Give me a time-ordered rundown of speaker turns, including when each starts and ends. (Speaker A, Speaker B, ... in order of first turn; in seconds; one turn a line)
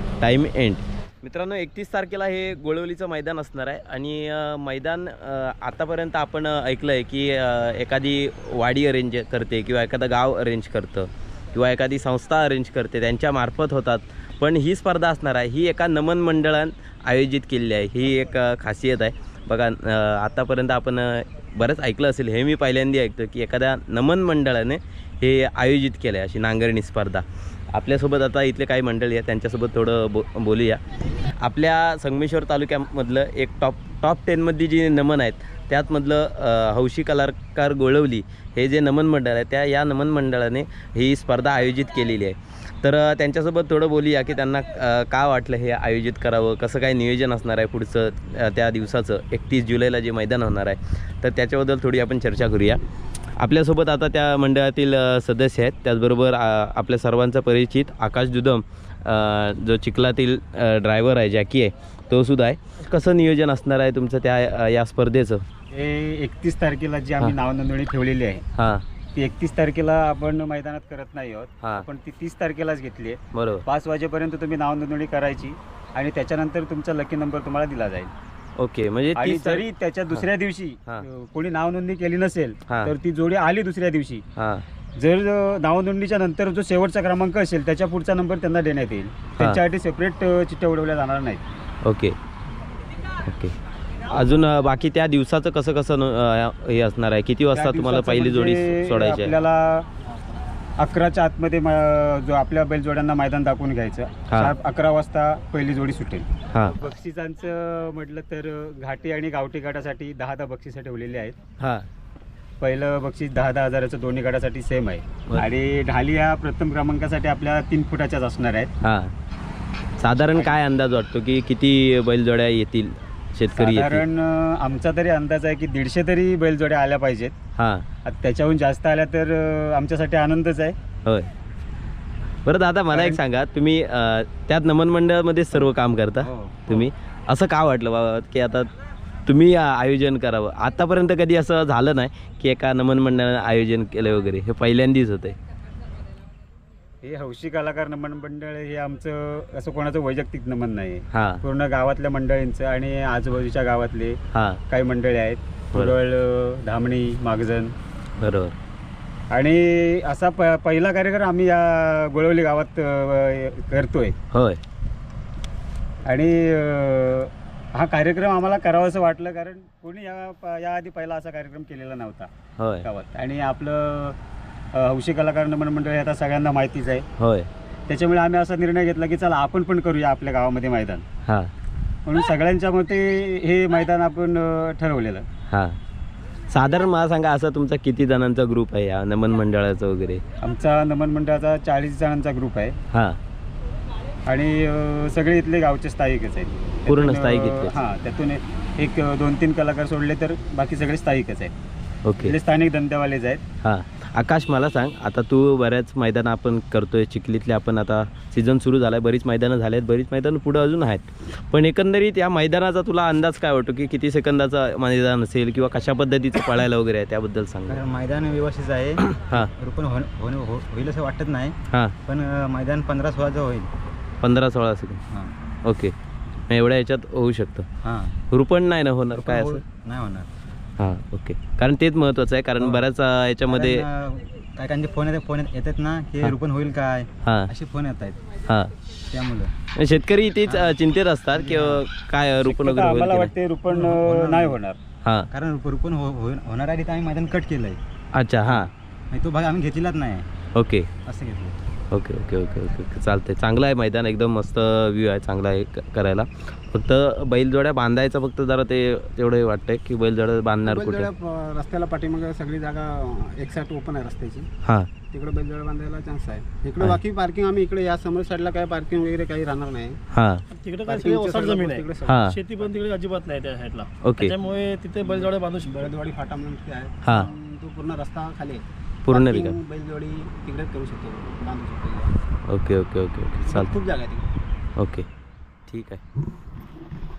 Speaker A: 0.2-52.8
Speaker A: 53.4-65.4
Speaker B: 65.7-68.4
Speaker A: 68.5-68.8
Speaker B: 69.1-78.1
Speaker A: 73.3-73.6
Speaker A: 78.6-80.3
Speaker B: 79.1-84.2
Speaker A: 82.7-82.9
Speaker A: 84.3-84.6
Speaker B: 85.0-91.4
Speaker A: 91.8-92.2
Speaker A: 93.2-93.5
Speaker A: 94.1-99.3
Speaker B: 97.5-99.9
Speaker B: 100.8-111.3
Speaker A: 104.3-104.5
Speaker A: 106.5-106.8
Speaker A: 111.6-111.9
Speaker B: 112.6-118.7
Speaker A: 118.8-119.1
Speaker A: 120.0-124.0
Speaker B: 123.5-127.3
Speaker A: 127.5-127.8
Speaker B: 128.0-130.8
Speaker A: 132.4-138.7
Speaker B: 132.9-133.2
Speaker B: 136.2-136.6
Speaker A: 139.2-145.3
Speaker B: 147.0-157.7
Speaker A: 151.1-151.4
Speaker A: 154.3-154.6
Speaker A: 158.2-158.5
Speaker B: 159.3-164.2
Speaker A: 164.3-164.6
Speaker B: 166.1-172.3
Speaker A: 172.6-172.9
Speaker B: 172.8-174.2
Speaker B: 174.7-177.1
Speaker A: 177.2-177.5
Speaker B: 177.9-181.0
Speaker A: 181.2-181.5
Speaker B: 182.1-185.2
Speaker A: 185.5-185.8
Speaker A: 186.5-190.2
Speaker B: 190.4-192.8
Speaker A: 192.9-193.2
Speaker B: 194.3-201.5
Speaker A: 196.9-197.7
Speaker A: 202.0-202.4
Speaker B: 202.2-203.4
Speaker A: 203.6-217.8
Speaker C: 217.7-223.7
Speaker A: 219.1-219.5
Speaker A: 221.7-221.9
Speaker A: 224.2-225.0
Speaker A: 225.6-225.9
Speaker A: 226.5-227.7
Speaker C: 227.8-228.2
Speaker A: 228.3-229.6
Speaker C: 229.1-230.3
Speaker A: 230.8-233.8
Speaker C: 233.5-238.2
Speaker A: 237.2-237.5
Speaker A: 238.4-238.7
Speaker C: 238.9-239.5
Speaker A: 239.7-243.3
Speaker C: 240.4-240.8
Speaker C: 241.3-241.8
Speaker B: 242.4-244.8
Speaker C: 243.7-244.6
Speaker C: 245.3-247.8
Speaker A: 248.1-248.7
Speaker C: 248.5-250.3
Speaker A: 250.5-250.9
Speaker C: 251.0-251.6
Speaker A: 251.9-261.1
Speaker D: 260.6-264.5
Speaker A: 264.6-264.9
Speaker D: 265.1-270.0
Speaker A: 270.1-270.4
Speaker E: 270.5-275.7
Speaker D: 270.8-272.3
Speaker A: 272.1-272.4
Speaker A: 274.0-274.4
Speaker D: 275.0-282.1
Speaker A: 277.0-277.3
Speaker A: 279.0-279.6
Speaker A: 282.5-283.7
Speaker D: 283.4-284.3
Speaker A: 284.8-285.1
Speaker A: 285.7-286.0